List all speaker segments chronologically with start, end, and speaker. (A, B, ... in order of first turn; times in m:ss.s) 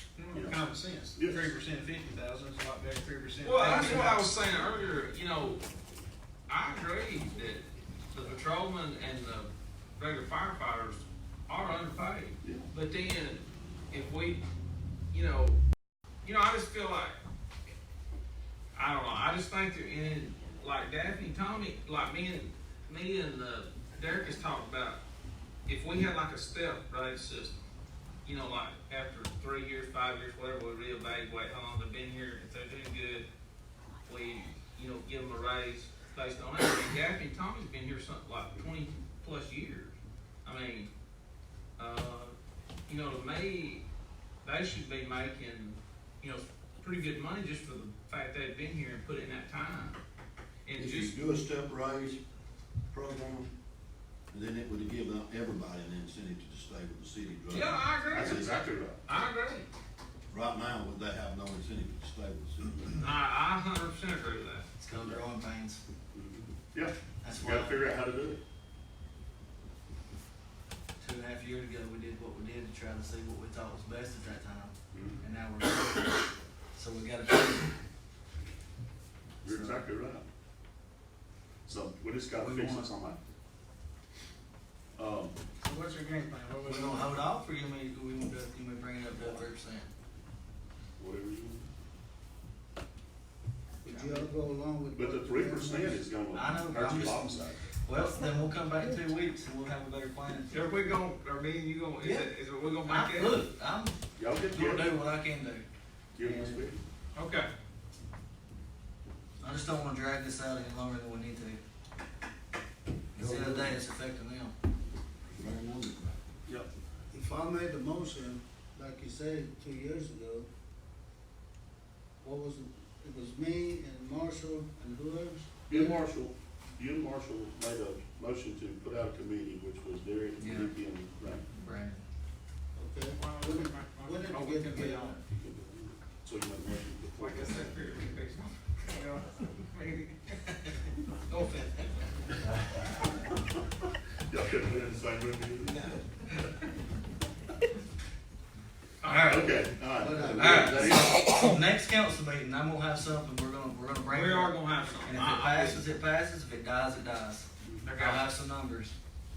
0:00.2-0:04.3 A
0:00.3-0:00.6 B
0:01.1-0:01.5 B
0:03.4-0:05.6 C
0:06.5-0:14.4 C
0:12.4-0:12.7 B
0:15.1-0:15.6 C
0:16.2-0:17.2 C
0:18.7-0:25.0 C
0:25.7-0:27.6 C
0:28.2-0:33.3 C
0:34.0-0:40.9 C
0:41.8-0:42.4 C
0:42.9-0:43.8 C
0:44.4-0:50.0 C
0:50.7-0:51.2 C
0:50.8-0:52.2 D
0:52.9-0:53.5 D
0:54.3-0:58.5 D
0:57.5-0:59.7 C
0:58.1-0:59.0 B
1:00.3-1:03.0 D
1:02.9-1:04.7 C
1:04.8-1:05.8 E
1:04.9-1:05.2 B
1:06.1-1:08.4 B
1:07.2-1:07.8 E
1:11.0-1:17.7 E
1:14.9-1:15.2 B
1:19.4-1:20.2 B
1:19.4-1:19.8 E
1:21.7-1:23.2 B
1:22.4-1:22.9 E
1:25.0-1:25.4 B
1:25.6-1:27.0 A
1:26.6-1:29.9 E
1:31.0-1:31.7 B
1:33.8-1:36.0 F
1:34.9-1:37.6 B
1:36.3-1:40.6 E
1:40.5-1:43.4 C
1:42.0-1:42.3 E
1:42.8-1:45.6 E
1:44.2-1:44.9 B
1:46.1-1:46.8 B
1:46.2-1:46.7 E
1:47.1-1:47.5 C
1:49.4-1:51.6 E
1:53.2-1:54.5 E
1:53.2-1:53.7 D
1:55.4-1:56.2 D
1:57.1-2:00.5 F
2:02.2-2:06.1 F
2:05.7-2:11.4 B
2:10.4-2:10.7 E
2:11.5-2:12.0 E
2:12.8-2:15.2 F
2:13.2-2:15.1 A
2:15.2-2:17.8 B
2:17.1-2:20.3 C
2:21.3-2:21.9 C
2:24.3-2:25.9 B
2:29.0-2:29.4 C
2:29.0-2:38.9 E
2:29.3-2:31.2 B
2:30.0-2:31.0 F
2:34.1-2:35.9 C
2:37.8-2:38.3 C